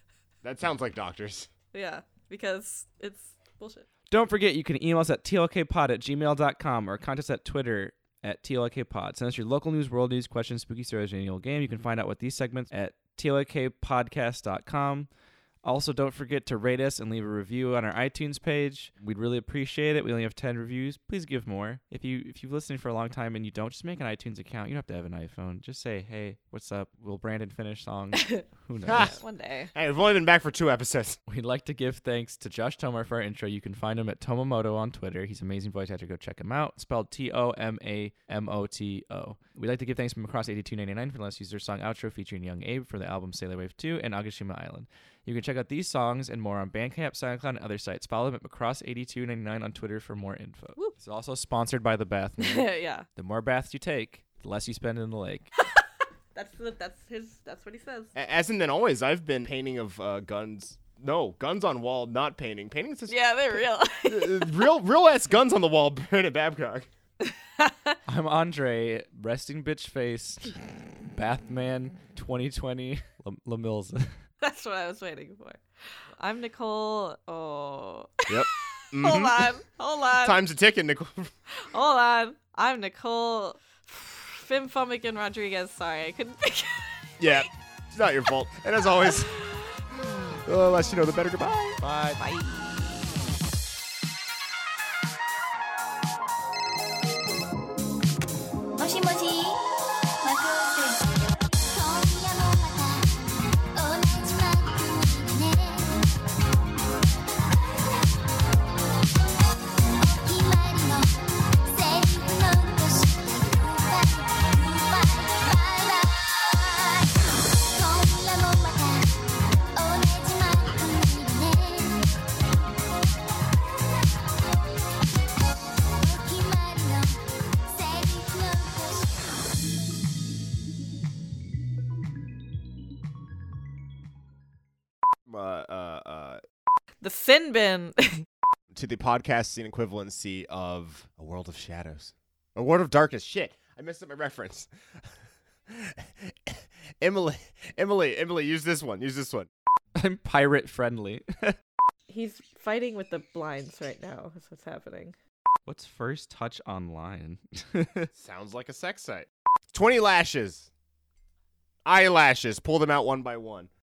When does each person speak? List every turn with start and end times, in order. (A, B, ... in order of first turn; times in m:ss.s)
0:00.4-0:01.5 A
0:01.7-0:03.8 B
0:04.1-0:15.1 C
0:15.6-0:29.1 C
0:28.2-0:29.7 B
0:28.8-0:29.2 A
0:29.7-0:31.2 A
0:31.3-0:55.5 C
0:52.4-0:53.0 B
0:56.3-0:58.1 B
0:58.1-1:03.2 A
1:03.1-1:04.7 B
1:03.9-1:06.9 A
1:07.2-1:08.0 B
1:08.1-1:14.1 C
1:14.4-1:20.4 B
1:18.3-1:19.5 A
1:20.2-1:21.3 A
1:21.5-1:27.5 B
1:27.2-1:29.4 A
1:29.0-1:30.4 B
1:30.4-1:31.8 A
1:31.8-1:32.2 C
1:32.2-1:32.6 B
1:38.8-1:39.6 D
1:40.2-1:46.2 D
1:50.0-1:59.2 D
1:59.8-2:02.2 D
2:05.9-2:09.4 D
2:15.3-2:16.4 A
2:17.0-2:18.2 B
2:18.7-2:24.7 A
2:25.7-2:29.5 A
2:29.9-2:31.6 C
2:32.1-2:35.2 B
2:35.6-2:38.1 C
2:38.1-2:40.7 A
2:41.8-2:43.7 A